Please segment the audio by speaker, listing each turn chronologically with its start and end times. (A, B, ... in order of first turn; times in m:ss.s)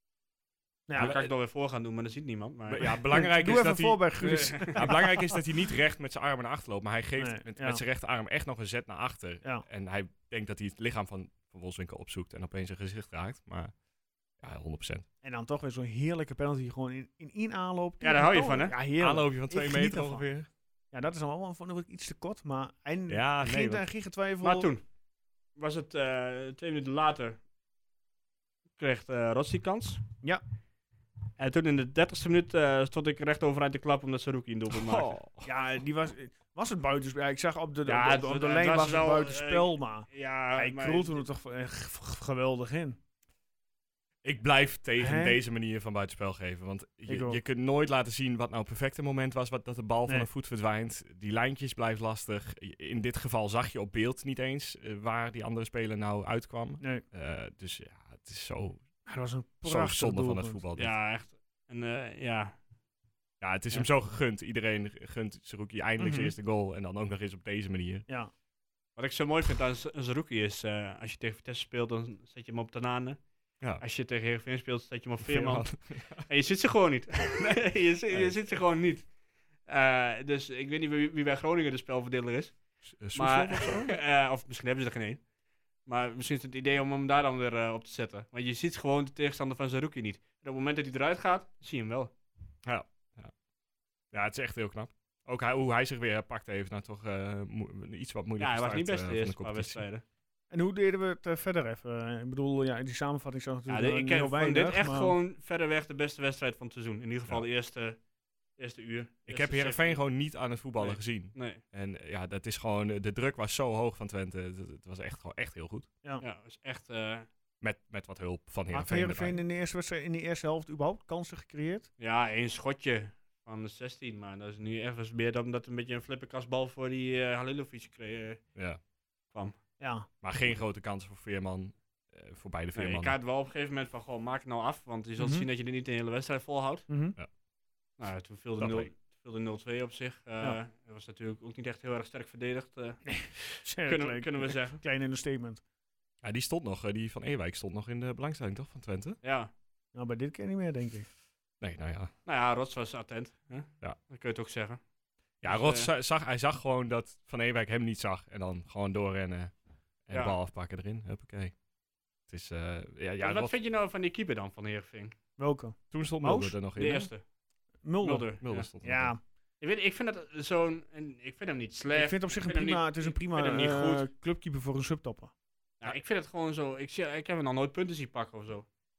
0:00.9-0:01.1 A
0:01.0-0:03.0 B
0:01.0-0:01.3 C
0:02.7-0:13.7 C
0:03.1-0:05.4 A
0:04.2-0:04.8 B
0:07.2-0:07.8 A
0:14.4-0:15.1 C
0:15.2-0:20.2 A
0:18.0-0:18.8 B
0:19.0-0:20.5 C
0:20.9-0:24.7 A
0:23.1-0:23.8 C
0:24.4-0:24.8 B
0:25.6-0:27.4 B
0:28.8-0:30.0 B
0:31.4-0:35.2 B
0:34.7-0:35.5 C
0:35.4-0:43.0 A
0:37.9-0:41.2 B
0:44.2-0:58.8 C
0:45.0-0:45.4 A
0:47.1-0:47.4 A
0:59.1-1:00.6 A
0:59.6-1:01.0 C
1:00.8-1:02.6 B
1:03.4-1:08.1 C
1:06.0-1:06.4 A
1:09.0-1:13.2 B
1:13.8-1:15.7 B
1:15.3-1:16.2 C
1:16.3-1:19.1 B
1:18.1-1:18.6 C
1:19.6-1:22.6 B
1:22.9-1:23.9 C
1:23.1-1:25.2 B
1:25.8-1:32.1 B
1:32.6-1:33.3 C
1:34.1-1:39.8 C
1:38.4-1:40.0 B
1:40.5-1:45.2 A
1:43.7-1:48.0 B
1:48.6-1:50.0 B
1:49.3-1:55.9 C
1:50.8-1:51.6 B
1:56.2-1:57.3 B
1:57.6-1:59.4 C
1:58.7-2:01.9 A
2:02.0-2:08.4 B
2:09.3-2:09.6 B
2:09.8-2:10.1 A
2:10.2-2:13.2 C
2:12.8-2:16.9 B
2:15.2-2:15.5 A
2:16.9-2:17.2 A
2:18.0-2:24.8 B
2:18.6-2:18.9 C
2:23.1-2:25.6 A
2:26.2-2:29.2 C
2:29.2-2:29.5 B
2:29.9-2:31.1 A
2:31.6-2:32.1 C
2:32.3-2:34.8 B
2:35.4-2:39.5 C
2:35.4-2:35.9 B
2:40.1-2:41.6 C
2:40.1-2:40.4 B
2:42.3-2:43.5 C
2:43.2-2:45.2 B
2:45.4-2:46.6 A
2:45.9-2:47.1 C
2:46.8-2:47.2 B
2:47.8-2:48.3 A
2:48.0-2:48.7 B
2:48.4-2:49.1 C
2:48.8-2:49.2 A
2:49.6-2:54.1 B
2:51.9-2:55.3 A
2:55.8-2:58.7 B